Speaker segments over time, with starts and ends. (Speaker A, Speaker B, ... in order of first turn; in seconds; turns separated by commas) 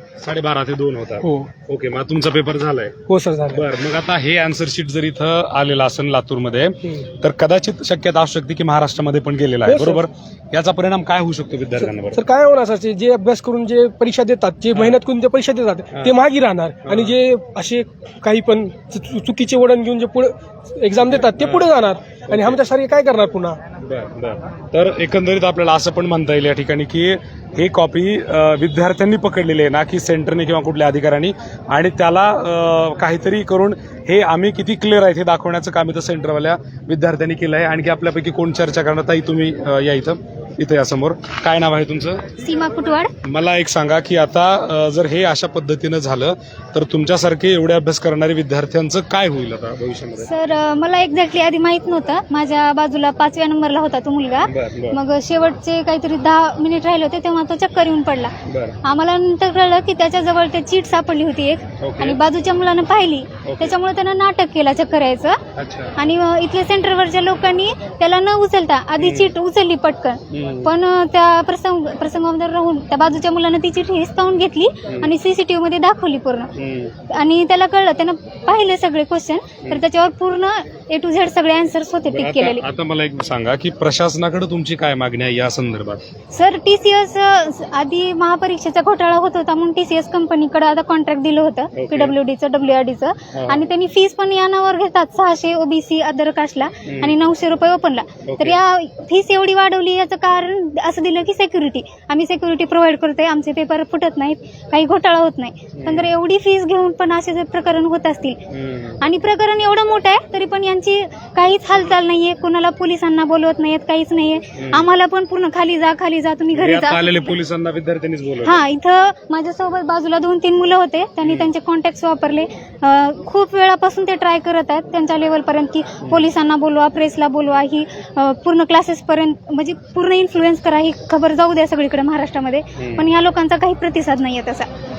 Speaker A: 0.2-3.0, Speaker B: 1.2-1.5, Speaker B: 3.1-3.7, Speaker A: 3.5-12.2, Speaker B: 9.6-10.1, Speaker B: 11.8-23.6, Speaker A: 14.7-15.0, Speaker A: 15.9-16.2, Speaker A: 16.8-17.1, Speaker A: 21.0-21.7, Speaker A: 22.3-22.6, Speaker A: 23.8-42.2, Speaker C: 42.4-43.1, Speaker A: 43.2-50.3, Speaker C: 50.2-58.3, Speaker A: 54.4-55.0, Speaker A: 58.5-58.8, Speaker C: 58.8-65.4, Speaker A: 61.8-62.2, Speaker A: 63.4-63.8, Speaker A: 65.5-66.0, Speaker C: 66.0-76.5, Speaker A: 69.0-69.3, Speaker A: 70.3-70.7, Speaker A: 74.9-75.1, Speaker A: 76.6-76.9, Speaker C: 77.1-82.6, Speaker A: 82.1-86.0, Speaker C: 86.3-108.4, Speaker A: 91.8-92.2, Speaker A: 93.3-93.7, Speaker A: 96.8-97.2, Speaker A: 98.2-98.6, Speaker A: 105.8-106.1, Speaker A: 108.5-109.0, Speaker C: 109.0-117.2, Speaker A: 114.5-114.9, Speaker A: 116.5-118.6, Speaker C: 118.4-134.7, Speaker A: 121.2-121.5, Speaker A: 126.0-126.3, Speaker A: 132.8-133.1